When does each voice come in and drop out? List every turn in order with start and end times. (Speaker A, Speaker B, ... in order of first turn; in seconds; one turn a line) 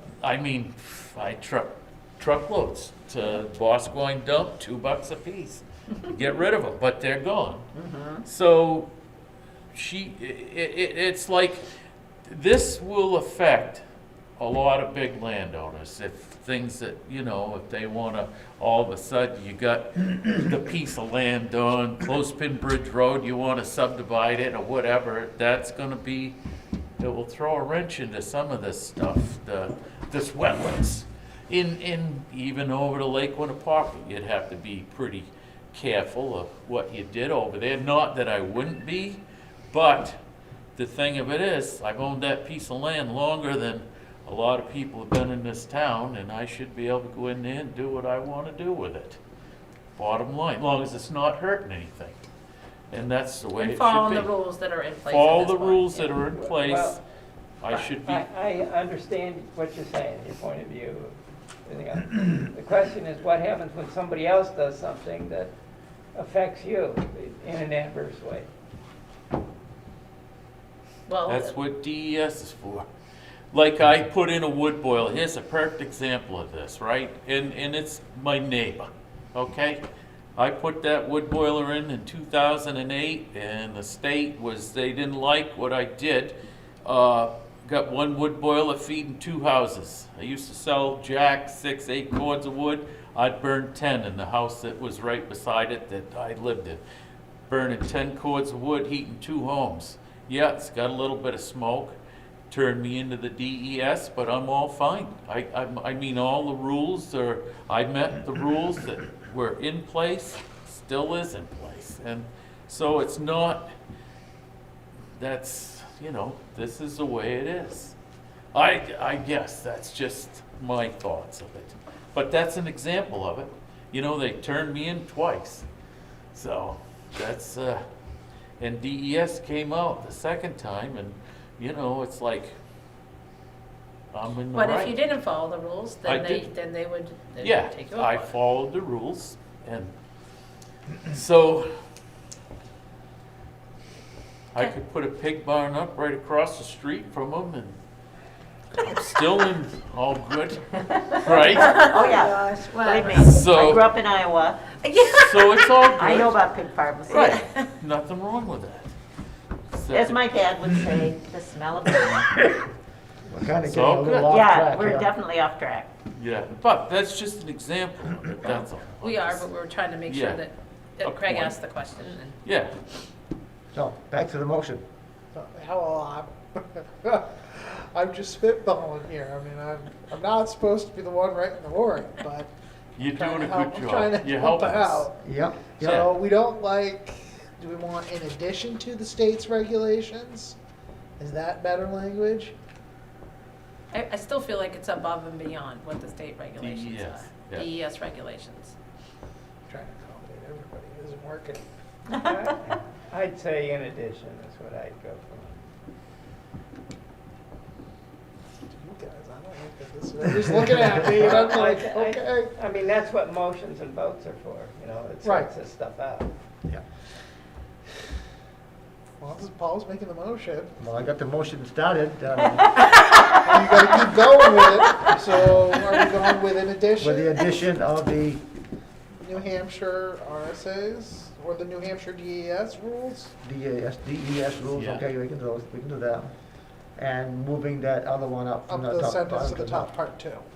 Speaker A: 0.2-7.7
Speaker B: 7.7-8.3
Speaker A: 8.2-8.9
Speaker A: 9.7-11.6
Speaker A: 12.3-13.8
Speaker A: 14.4-26.4
Speaker A: 27.0-40.2
Speaker A: 40.8-49.2
Speaker A: 50.0-52.2
Speaker A: 52.9-54.3
Speaker C: 53.6-56.1
Speaker A: 55.1-57.0
Speaker D: 56.4-57.0
Speaker A: 57.6-58.3
Speaker D: 58.0-65.5
Speaker D: 66.2-68.5
Speaker C: 71.1-71.5
Speaker A: 71.3-72.9
Speaker A: 73.5-79.8
Speaker A: 80.4-96.8
Speaker A: 97.5-102.0
Speaker A: 102.5-113.7
Speaker A: 115.2-118.0
Speaker A: 118.5-125.7
Speaker A: 126.3-127.8
Speaker A: 128.6-132.6
Speaker A: 134.1-134.9
Speaker C: 134.5-138.3
Speaker A: 136.1-136.5
Speaker A: 137.4-139.9
Speaker A: 141.1-141.7
Speaker A: 144.5-147.8
Speaker A: 148.8-152.0
Speaker C: 151.6-153.5
Speaker B: 151.9-154.6
Speaker A: 153.2-153.9
Speaker C: 154.8-156.3
Speaker A: 155.1-156.4
Speaker B: 156.0-157.4
Speaker A: 157.1-158.9
Speaker C: 157.1-157.5
Speaker A: 159.7-160.3
Speaker B: 159.9-162.3
Speaker E: 163.3-165.1
Speaker A: 163.7-164.4
Speaker B: 164.3-165.9
Speaker A: 166.2-169.5
Speaker C: 169.0-172.4
Speaker A: 170.1-170.4
Speaker A: 171.0-171.6
Speaker A: 172.4-172.8
Speaker E: 173.7-174.8
Speaker F: 175.3-185.2
Speaker A: 183.0-185.1
Speaker E: 185.2-186.1
Speaker A: 185.8-186.1
Speaker F: 186.0-190.6
Speaker F: 191.2-192.5
Speaker C: 193.9-198.8
Speaker A: 196.6-197.7
Speaker F: 199.7-201.7
Speaker D: 202.2-205.6
Speaker F: 208.7-212.6
Speaker D: 211.0-216.3
Speaker F: 215.2-215.6
Speaker F: 219.2-220.8
Speaker E: 220.8-222.7
Speaker F: 223.2-227.5
Speaker E: 227.0-228.4
Speaker F: 229.2-233.3
Speaker E: 233.4-236.3
Speaker A: 234.8-235.1
Speaker E: 237.0-239.9
Speaker F: 238.7-240.4